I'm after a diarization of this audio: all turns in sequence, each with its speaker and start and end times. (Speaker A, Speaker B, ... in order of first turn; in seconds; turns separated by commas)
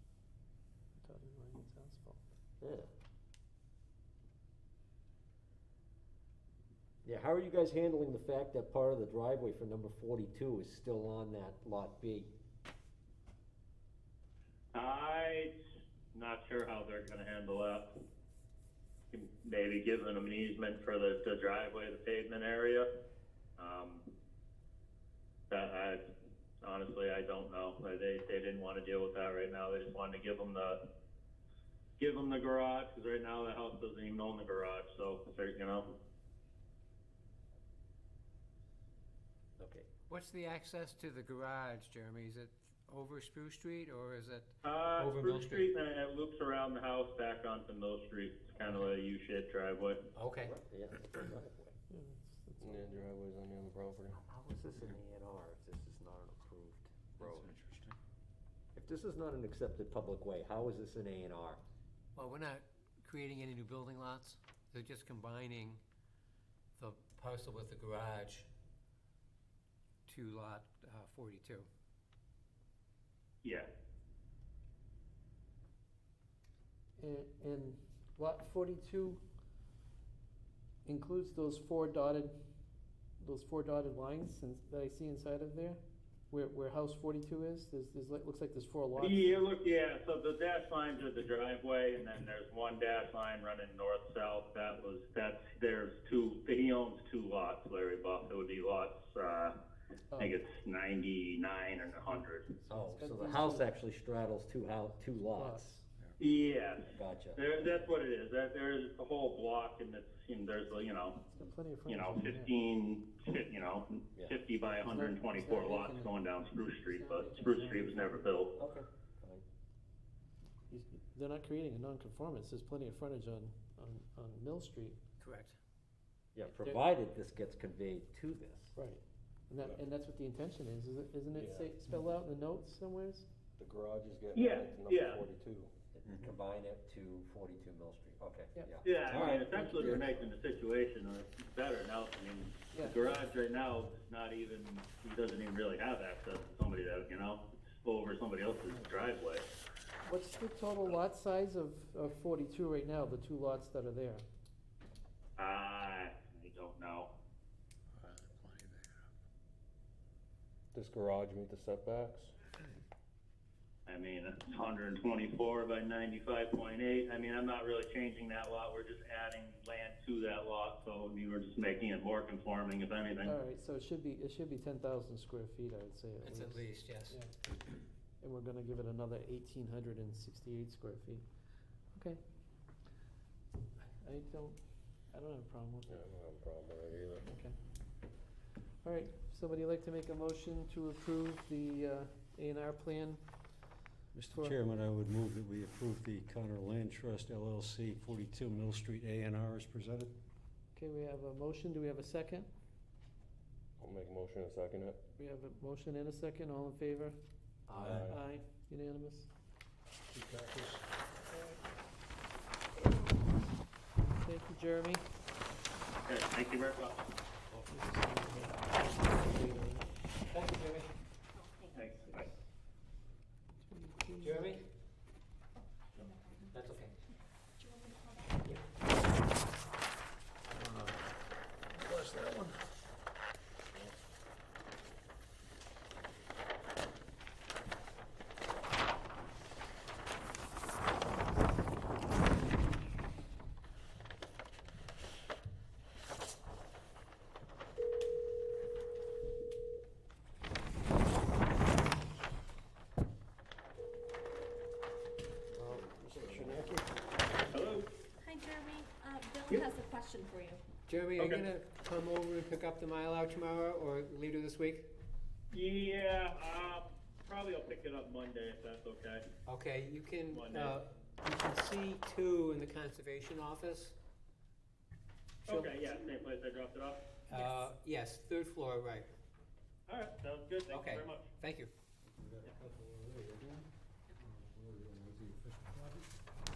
Speaker A: 0.9-2.2, Speaker B: 2.6-2.9, Speaker B: 7.0-12.3, Speaker C: 14.7-15.5, Speaker C: 16.1-17.9, Speaker C: 19.1-22.9, Speaker C: 23.6-24.1, Speaker C: 25.5-26.0, Speaker C: 26.6-30.8, Speaker C: 32.0-35.9, Speaker B: 39.6-39.9, Speaker D: 40.1-45.7, Speaker C: 44.6-50.0, Speaker D: 48.6-48.9, Speaker D: 50.1-50.5, Speaker B: 50.4-51.7, Speaker A: 51.9-53.0, Speaker E: 52.6-54.2, Speaker B: 54.1-57.5, Speaker F: 57.2-57.9, Speaker B: 58.7-61.6, Speaker D: 62.1-65.8, Speaker D: 66.8-68.5, Speaker D: 70.1-71.7, Speaker A: 77.0-79.2, Speaker A: 80.8-82.3, Speaker A: 83.2-85.8, Speaker A: 86.3-89.4, Speaker C: 89.0-99.5, Speaker C: 100.2-102.5, Speaker A: 102.1-103.7, Speaker B: 102.7-105.8, Speaker A: 105.3-105.8, Speaker C: 106.2-111.2, Speaker B: 106.9-107.9, Speaker A: 111.3-112.5, Speaker C: 111.9-118.5, Speaker A: 114.8-116.2, Speaker A: 116.8-118.3, Speaker B: 118.5-119.4, Speaker A: 120.7-125.0, Speaker D: 125.2-125.6, Speaker B: 126.3-128.7, Speaker A: 126.5-126.8, Speaker A: 128.7-133.2, Speaker E: 131.3-131.8, Speaker E: 133.6-135.7, Speaker C: 134.3-135.2, Speaker B: 135.9-139.3, Speaker A: 138.5-140.2, Speaker C: 138.8-149.4, Speaker A: 142.7-143.2, Speaker A: 150.0-154.2, Speaker C: 155.4-157.1, Speaker F: 158.0-158.9, Speaker E: 160.7-162.3, Speaker C: 163.8-173.3, Speaker A: 173.2-177.3, Speaker D: 176.2-177.2, Speaker A: 178.2-181.2, Speaker A: 181.9-182.2, Speaker A: 184.0-184.6, Speaker A: 185.1-186.0, Speaker E: 185.9-187.2, Speaker A: 187.2-187.6, Speaker A: 188.8-193.2, Speaker F: 194.1-200.1, Speaker A: 194.3-194.6, Speaker A: 200.7-202.5, Speaker E: 203.8-205.0, Speaker A: 205.1-207.2, Speaker F: 207.7-208.1, Speaker E: 207.7-208.2, Speaker A: 207.9-209.3, Speaker F: 210.1-210.8, Speaker A: 211.3-211.6, Speaker A: 214.0-215.0, Speaker C: 216.1-217.1, Speaker A: 217.7-219.9, Speaker D: 220.3-220.9, Speaker G: 221.3-222.1, Speaker C: 221.7-222.3, Speaker A: 223.7-224.4, Speaker D: 224.2-224.6, Speaker G: 225.6-226.7, Speaker D: 226.5-226.9, Speaker G: 227.6-228.4, Speaker F: 230.6-230.9, Speaker F: 231.8-232.6, Speaker F: 255.6-256.7, Speaker E: 255.6-256.8, Speaker C: 257.5-257.9, Speaker G: 258.2-260.6, Speaker D: 260.9-264.9, Speaker C: 265.5-269.2, Speaker D: 269.4-273.9, Speaker C: 270.3-270.8, Speaker C: 275.5-277.0, Speaker D: 277.3-279.1, Speaker G: 277.3-277.6, Speaker C: 279.9-281.2, Speaker D: 280.7-281.7, Speaker F: 282.1-283.6, Speaker F: 284.2-286.1